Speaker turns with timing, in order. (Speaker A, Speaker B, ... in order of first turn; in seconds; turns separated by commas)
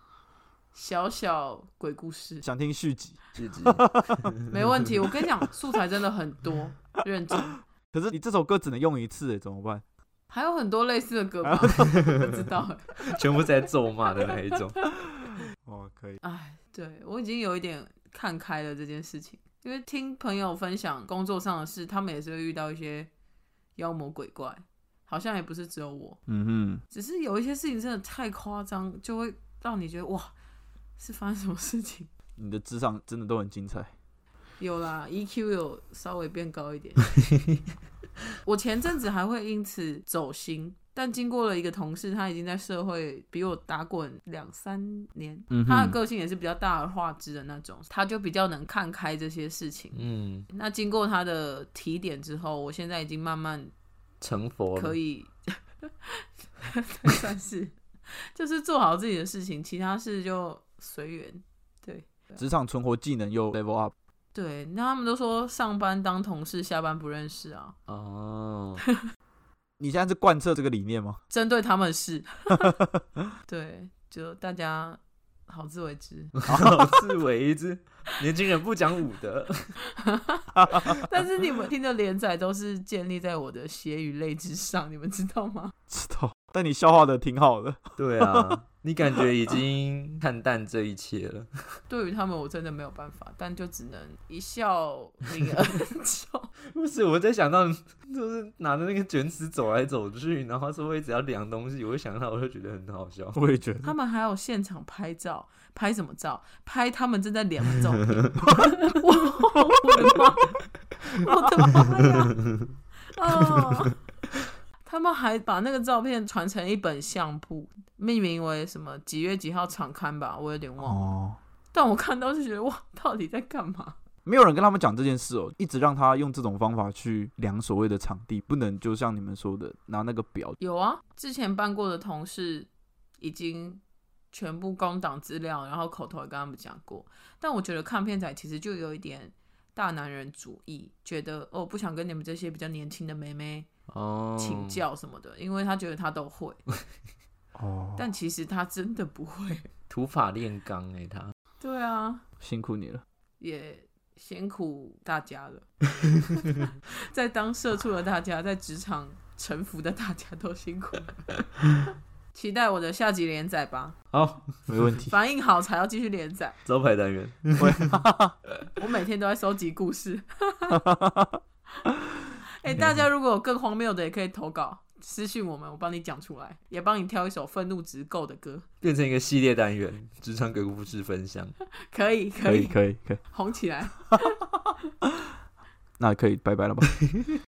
Speaker A: 0.7-2.5, Speaker B: 2.4-4.3, Speaker C: 3.4-4.6, Speaker A: 4.5-7.6, Speaker B: 7.9-9.8, Speaker A: 10.3-13.2, Speaker B: 11.4-11.9, Speaker C: 13.1-14.8, Speaker B: 15.6-16.2, Speaker A: 16.2-23.1, Speaker A: 23.8-26.2, Speaker B: 26.3-26.8, Speaker A: 26.9-30.3, Speaker A: 31.0-32.1, Speaker B: 32.4-33.9, Speaker A: 34.6-37.1, Speaker A: 38.5-53.7, Speaker B: 45.5-46.0, Speaker C: 49.9-50.5, Speaker C: 54.2-55.0, Speaker A: 54.8-62.4, Speaker B: 62.4-63.9, Speaker A: 64.3-67.8, Speaker C: 67.9-68.8, Speaker B: 69.8-71.2, Speaker A: 71.3-72.8, Speaker A: 73.5-76.3, Speaker C: 76.4-79.8, Speaker B: 76.5-77.0, Speaker A: 80.0-85.7, Speaker B: 85.9-88.5, Speaker C: 88.0-91.8, Speaker A: 91.9-96.5, Speaker C: 96.7-103.4, Speaker B: 103.3-103.9, Speaker A: 103.8-110.6, Speaker A: 111.1-112.3, Speaker A: 113.1-114.0, Speaker A: 114.8-121.1, Speaker B: 120.8-121.4, Speaker A: 121.7-124.0, Speaker B: 124.2-130.6, Speaker A: 130.6-143.7, Speaker C: 143.9-144.8, Speaker A: 144.4-146.6, Speaker B: 147.6-148.1, Speaker A: 148.0-149.7, Speaker C: 149.9-151.3, Speaker A: 151.6-152.2, Speaker B: 152.4-153.0, Speaker A: 153.4-155.7, Speaker A: 156.4-161.2, Speaker A: 162.3-164.0, Speaker C: 164.1-164.5, Speaker B: 164.7-165.1, Speaker A: 165.1-166.6, Speaker C: 166.7-167.8, Speaker B: 167.6-168.3, Speaker A: 168.8-170.8, Speaker B: 170.8-171.3, Speaker A: 172.6-178.7, Speaker C: 178.8-181.5, Speaker A: 181.9-184.5, Speaker B: 182.5-183.2, Speaker B: 186.0-186.9